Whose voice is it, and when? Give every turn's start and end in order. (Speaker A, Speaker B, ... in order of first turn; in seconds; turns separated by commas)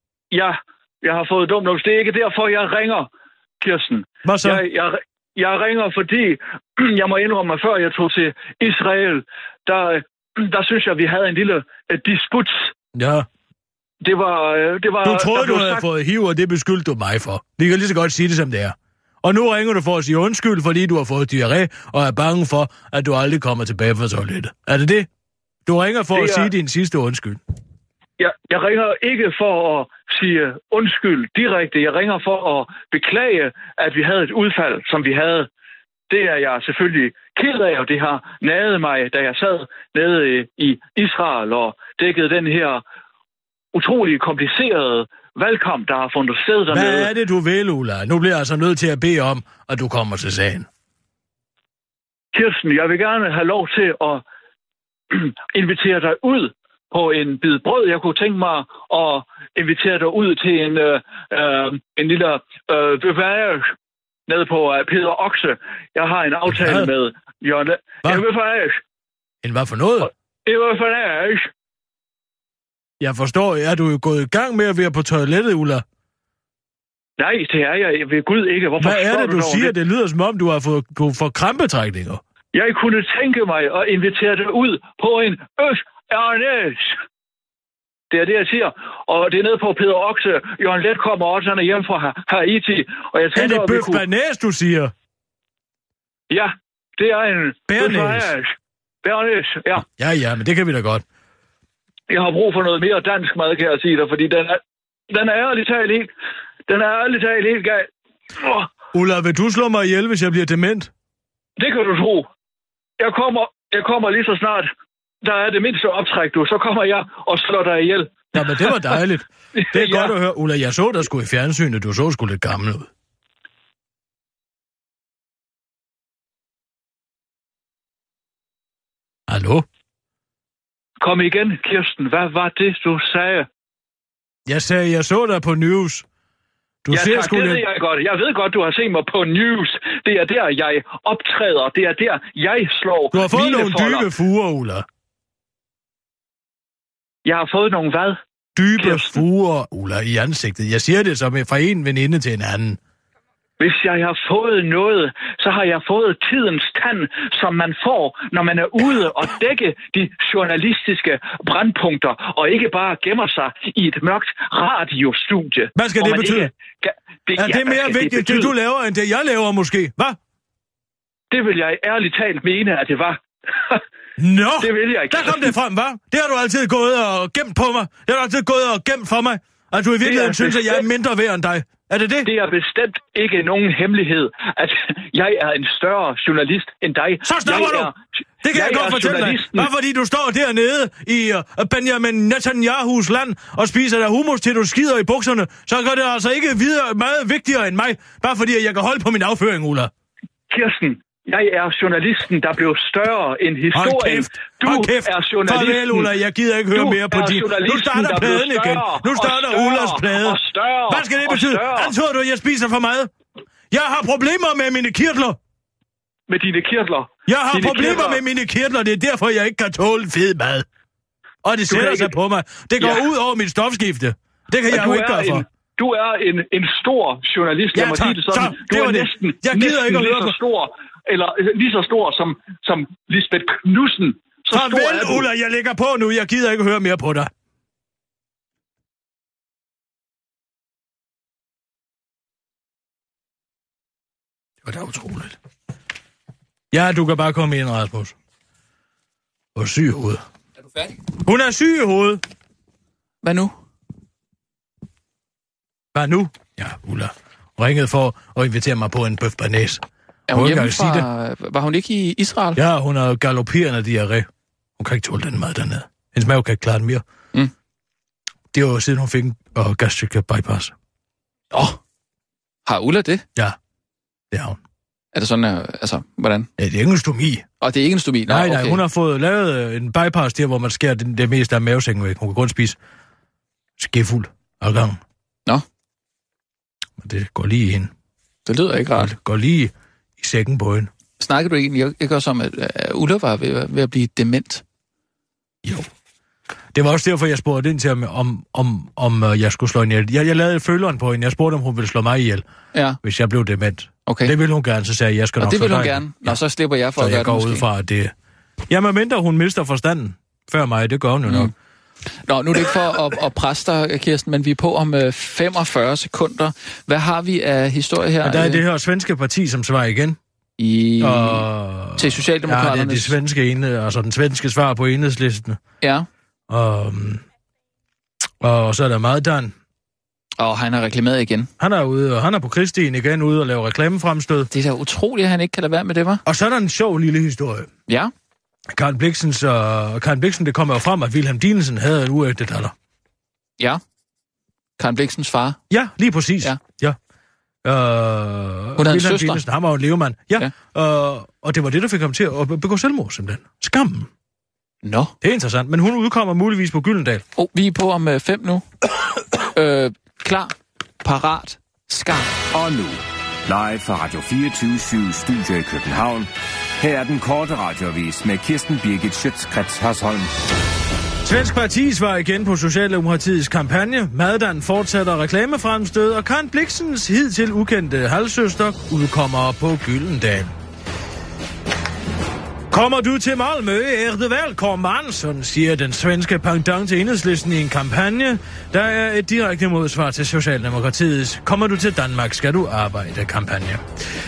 Speaker A: 0.3-3.1, Speaker A: 3.6-12.7, Speaker B: 4.2-4.6, Speaker B: 12.9-13.3, Speaker A: 14.0-15.8, Speaker B: 15.0-25.1, Speaker B: 25.7-27.4, Speaker A: 26.1-26.5, Speaker A: 28.2-35.5, Speaker A: 36.1-42.8, Speaker A: 43.7-47.1, Speaker B: 46.7-50.7, Speaker A: 52.3-54.2, Speaker A: 55.1-63.7, Speaker A: 64.3-68.8, Speaker B: 66.5-66.9, Speaker B: 69.4-70.1, Speaker A: 70.5-71.5, Speaker B: 73.0-75.8, Speaker A: 77.2-79.8, Speaker B: 78.8-82.2, Speaker A: 82.5-87.0, Speaker A: 88.1-94.0, Speaker B: 93.3-94.9, Speaker A: 96.3-99.8, Speaker B: 97.7-98.3, Speaker B: 99.8-101.0, Speaker A: 102.1-106.1, Speaker A: 106.7-108.7, Speaker B: 108.9-110.9, Speaker A: 111.6-112.3, Speaker A: 113.0-114.7, Speaker A: 115.2-119.0, Speaker B: 118.3-122.9, Speaker A: 119.6-120.1, Speaker B: 129.3-129.7, Speaker A: 131.0-133.5, Speaker B: 134.5-136.1, Speaker B: 136.8-137.6, Speaker A: 136.9-144.1, Speaker B: 143.1-144.9, Speaker A: 147.2-148.2, Speaker B: 148.6-152.8, Speaker A: 148.8-149.2, Speaker A: 153.6-168.5, Speaker B: 165.8-166.5, Speaker B: 167.4-170.2, Speaker A: 171.3-173.8, Speaker B: 174.2-182.3, Speaker A: 174.6-175.5, Speaker A: 180.0-180.9, Speaker A: 182.2-187.9, Speaker B: 187.2-187.9, Speaker B: 188.4-199.9, Speaker A: 188.5-189.7, Speaker A: 200.5-206.1, Speaker B: 203.8-213.1, Speaker A: 206.7-211.9, Speaker B: 213.7-215.4, Speaker A: 216.3-218.2, Speaker B: 217.3-220.7, Speaker B: 221.4-225.5, Speaker A: 221.7-222.1, Speaker A: 222.8-223.1, Speaker A: 224.7-235.3, Speaker B: 227.7-230.4, Speaker B: 234.5-237.3, Speaker B: 244.6-245.4, Speaker B: 246.7-248.2, Speaker B: 249.6-250.2, Speaker B: 251.2-252.2, Speaker C: 253.2-253.5, Speaker B: 255.9-261.1, Speaker C: 260.3-262.6, Speaker B: 262.6-267.0, Speaker B: 268.5-270.7, Speaker C: 271.5-271.8, Speaker C: 272.7-273.2, Speaker B: 274.3-274.6, Speaker C: 275.1-276.5, Speaker B: 276.6-277.5, Speaker C: 277.6-278.8, Speaker B: 278.3-282.8, Speaker B: 283.8-285.0, Speaker B: 287.0-287.9, Speaker C: 288.5-289.1, Speaker B: 289.0-290.9, Speaker C: 291.2-294.6, Speaker B: 295.6-295.9, Speaker B: 296.7-302.4, Speaker C: 302.7-303.0, Speaker B: 303.0-306.4, Speaker C: 304.1-304.3, Speaker C: 305.4-307.7, Speaker B: 307.0-308.1, Speaker B: 308.7-311.5, Speaker C: 311.3-311.5, Speaker C: 312.2-318.6, Speaker B: 318.2-320.2, Speaker C: 320.6-321.5, Speaker B: 321.0-325.6, Speaker C: 322.0-323.2, Speaker C: 325.8-326.1, Speaker B: 326.5-327.2, Speaker B: 328.4-329.5, Speaker C: 330.4-331.5, Speaker B: 331.6-334.5, Speaker C: 334.5-336.2, Speaker B: 336.2-337.7, Speaker B: 338.7-342.7, Speaker C: 344.8-345.6, Speaker B: 345.7-347.0, Speaker B: 347.6-354.1, Speaker C: 348.8-349.4, Speaker C: 354.8-355.1, Speaker B: 355.2-357.2, Speaker C: 357.4-358.6, Speaker C: 359.5-362.3, Speaker D: 362.5-370.3, Speaker B: 371.2-380.5, Speaker B: 382.7-393.8